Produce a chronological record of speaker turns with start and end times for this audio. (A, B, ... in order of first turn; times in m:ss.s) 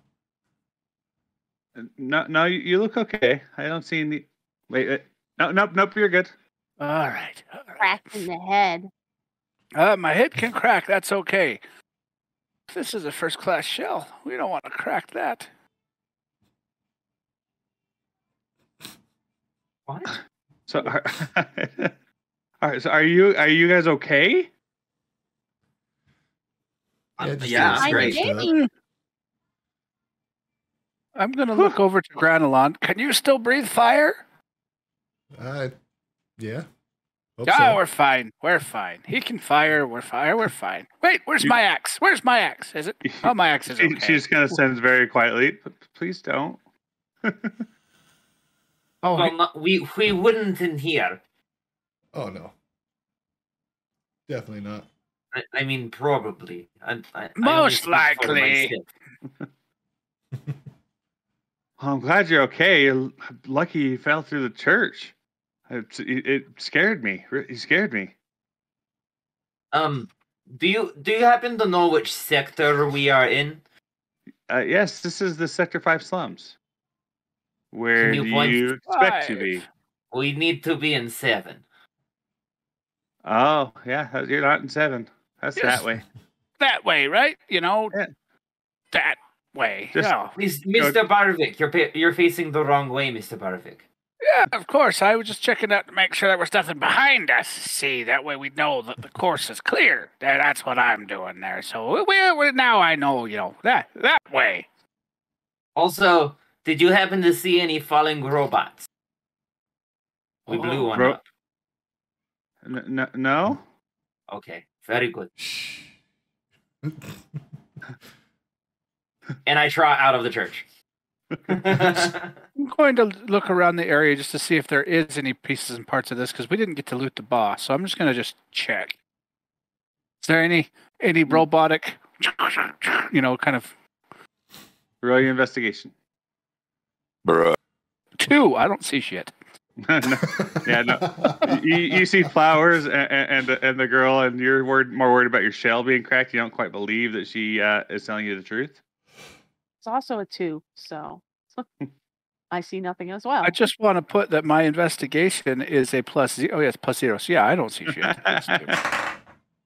0:01.8-0:06.3 A
0:06.8-0:08.3 B
0:07.8-0:08.9 C
0:09.8-0:11.6 B
0:12.7-0:15.5 B
0:19.9-0:20.2 D
0:20.7-0:21.9 A
0:22.6-0:24.5 A
0:27.2-0:28.2 D
0:27.2-0:28.5 E
0:27.8-0:28.6 C
0:27.9-0:28.7 B
0:31.2-0:34.2 B
0:35.3-0:35.7 E
0:36.4-0:36.7 E
0:37.4-0:37.8 E
0:37.5-0:44.6 B
0:43.1-0:46.6 A
0:47.2-0:47.6 A
0:49.0-0:49.3 B
0:49.2-0:51.2 D
0:52.1-0:52.5 E
0:54.3-0:54.9 E
0:55.3-0:58.9 D
0:57.4-0:58.7 B
1:01.8-1:05.1 A
1:05.7-1:08.1 A
1:09.7-1:13.6 D
1:14.5-1:16.6 A
1:17.7-1:19.6 A
1:18.0-1:18.7 D
1:18.9-1:19.6 B
1:20.1-1:21.6 D
1:23.2-1:26.0 A
1:25.6-1:25.8 B
1:26.6-1:27.9 B
1:28.9-1:30.4 B
1:30.0-1:30.2 A
1:30.4-1:33.8 D
1:34.2-1:44.7 B
1:45.8-1:48.9 D
1:50.5-1:51.2 D
1:50.5-1:51.0 B
1:52.6-1:53.6 A
1:54.3-1:55.3 D
1:55.4-1:55.9 E
1:56.8-1:57.2 E
1:59.5-2:00.6 D
2:01.5-2:02.4 D
2:01.5-2:02.0 A
2:02.6-2:09.0 B
2:10.2-2:13.7 B
2:15.0-2:15.9 A
2:17.2-2:17.6 B
2:18.2-2:19.3 B
2:19.8-2:28.8 A
2:20.7-2:21.3 E
2:29.8-2:31.7 C
2:32.5-2:33.6 C
2:33.4-2:38.8 B
2:38.0-2:38.8 A